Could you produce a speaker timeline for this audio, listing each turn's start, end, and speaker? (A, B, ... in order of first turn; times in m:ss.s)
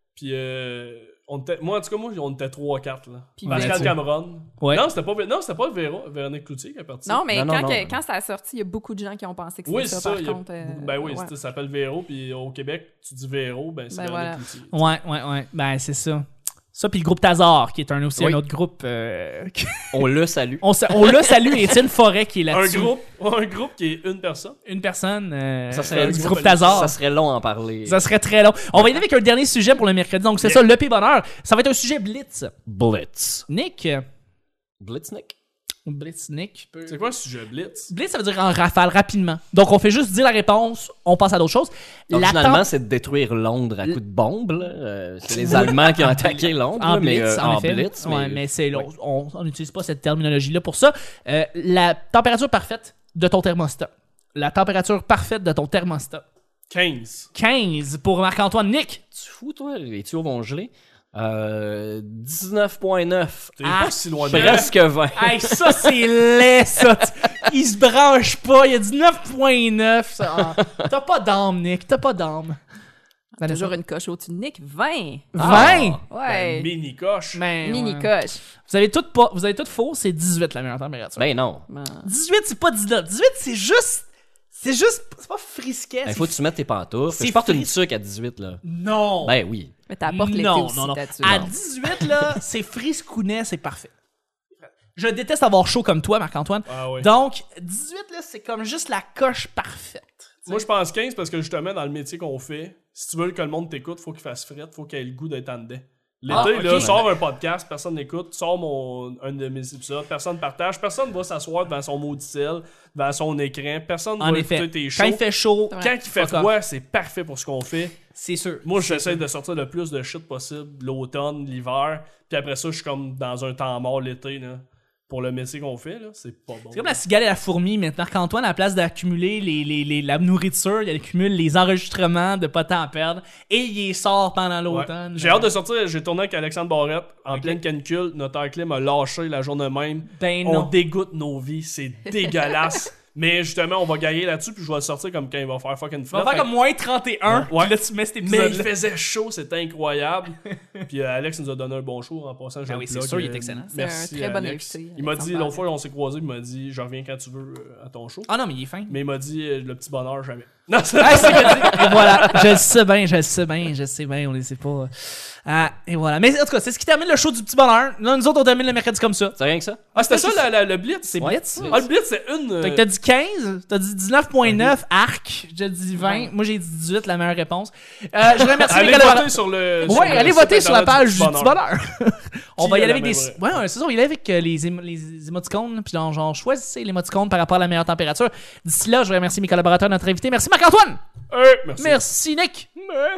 0:00.2-0:07.2 A
0:03.4-0:04.0 B
0:03.5-0:04.0 C
0:04.6-0:04.8 C
0:07.1-0:11.3 B
0:07.3-0:08.0 D
0:09.7-0:14.8 A
0:13.9-0:14.4 B
0:14.7-0:20.1 C
0:18.2-0:18.4 D
0:19.9-0:21.6 D
0:20.6-0:22.9 C
0:22.5-0:24.6 A
0:24.6-0:27.0 C
0:25.7-0:28.1 D
0:25.8-0:26.9 A
0:27.9-0:32.6 C
0:32.7-0:33.5 D
0:33.5-0:34.0 C
0:34.8-0:35.4 D
0:35.9-0:36.9 C
0:36.8-0:37.9 A
0:37.9-0:42.7 C
0:42.1-0:48.9 D
0:45.3-0:56.2 C
0:56.7-0:57.3 A
0:57.4-0:59.0 C
0:59.2-1:03.6 D
1:03.6-1:04.7 A
1:03.6-1:12.6 C
1:04.3-1:06.1 D
1:13.4-1:13.7 C
1:13.4-1:15.4 B
1:15.3-1:16.0 C
1:15.4-1:16.0 D
1:15.6-1:17.4 A
1:16.1-1:16.7 B
1:17.4-1:18.1 C
1:17.6-1:18.4 B
1:18.6-1:21.3 C
1:21.2-1:21.6 D
1:21.7-1:22.1 B
1:22.0-1:26.4 C
1:26.0-1:28.6 D
1:27.1-1:27.7 C
1:28.6-1:29.4 C
1:29.2-1:29.7 D
1:29.9-1:31.6 B
1:30.1-1:33.9 C
1:34.6-1:40.6 C
1:36.7-1:37.1 A
1:40.5-1:55.2 A
1:46.3-1:47.0 C
1:46.3-1:47.1 D
1:54.2-1:56.5 C
1:55.7-1:56.0 B
1:55.8-1:58.0 A
1:58.2-1:59.2 C
1:58.6-2:07.0 A
2:06.7-2:15.5 C
2:14.7-2:26.5 A
2:17.3-2:17.6 C
2:20.1-2:20.7 C
2:22.2-2:22.8 B
2:26.1-2:28.7 C
2:27.3-2:38.3 A
2:32.7-2:33.7 C
2:33.7-2:35.6 B
2:38.3-2:39.0 C
2:38.9-2:42.6 A
2:41.0-2:49.4 C
2:49.4-2:49.8 D
2:49.9-2:50.5 C
2:50.0-2:52.8 A
2:51.1-2:51.9 C
2:51.2-2:51.7 D
2:52.6-3:11.0 C
2:54.4-2:54.7 A
2:56.0-2:56.3 B
2:58.6-3:01.6 A
3:02.6-3:03.4 A
3:11.3-3:12.0 A
3:11.8-3:12.9 C